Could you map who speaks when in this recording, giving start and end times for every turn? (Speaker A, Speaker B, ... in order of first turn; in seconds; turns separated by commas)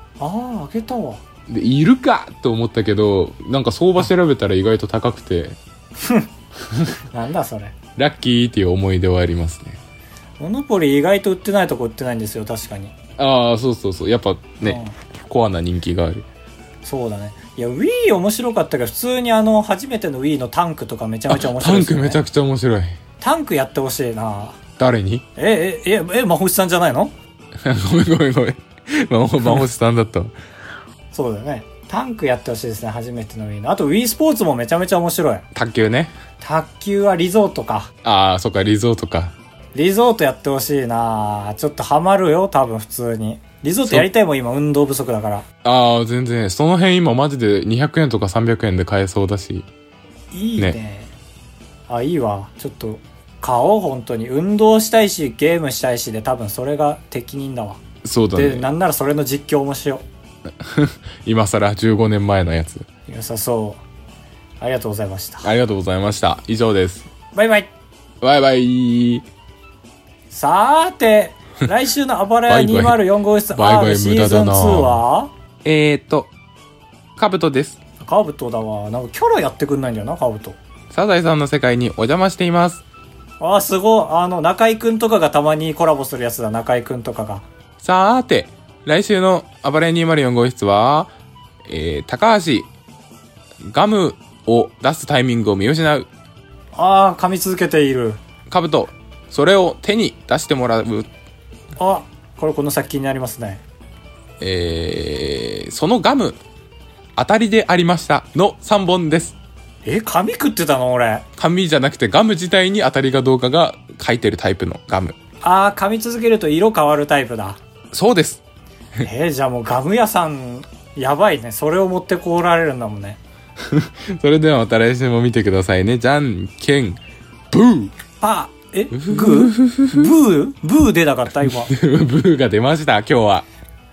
Speaker A: 0.2-1.2, Speaker B: 1.5-5.6, Speaker A: 6.0-6.3, Speaker A: 7.1-7.7, Speaker B: 8.0-9.8, Speaker A: 10.4-12.9, Speaker B: 13.2-16.2, Speaker A: 14.6-14.9, Speaker A: 16.8-22.2, Speaker B: 21.3-23.0, Speaker A: 23.2-24.6, Speaker B: 24.8-25.2, Speaker A: 25.4-27.1, Speaker B: 27.6-30.3, Speaker A: 31.1-35.4, Speaker B: 35.5-36.1, Speaker A: 36.4-37.9, Speaker B: 38.0-39.3, Speaker A: 39.7-45.4, Speaker B: 45.6-49.7, Speaker A: 50.3-51.1, Speaker A: 51.9-57.8, Speaker B: 58.0-58.7, Speaker A: 58.3-60.0, Speaker B: 60.6-62.8, Speaker A: 63.1-63.8, Speaker A: 64.6-65.5, Speaker B: 65.4-67.1, Speaker A: 67.3-67.7, Speaker B: 68.2-69.2, Speaker A: 70.3-75.3, Speaker B: 72.5-73.0, Speaker B: 73.5-75.0, Speaker B: 75.6-76.3, Speaker B: 77.2-77.8, Speaker A: 78.0-80.6, Speaker B: 80.9-82.8, Speaker A: 83.4-87.4, Speaker B: 87.8-91.1, Speaker B: 91.7-92.7, Speaker B: 93.6-96.1, Speaker A: 96.7-98.2, Speaker B: 98.5-101.1, Speaker A: 101.8-103.6, Speaker B: 104.4-106.4, Speaker B: 107.2-109.3, Speaker A: 109.8-111.2, Speaker B: 111.4-115.2, Speaker A: 115.4-117.6, Speaker B: 117.9-118.4, Speaker A: 119.0-123.2, Speaker B: 123.6-127.0, Speaker B: 127.5-127.9, Speaker A: 128.2-131.7, Speaker B: 128.9-130.1, Speaker B: 131.6-133.4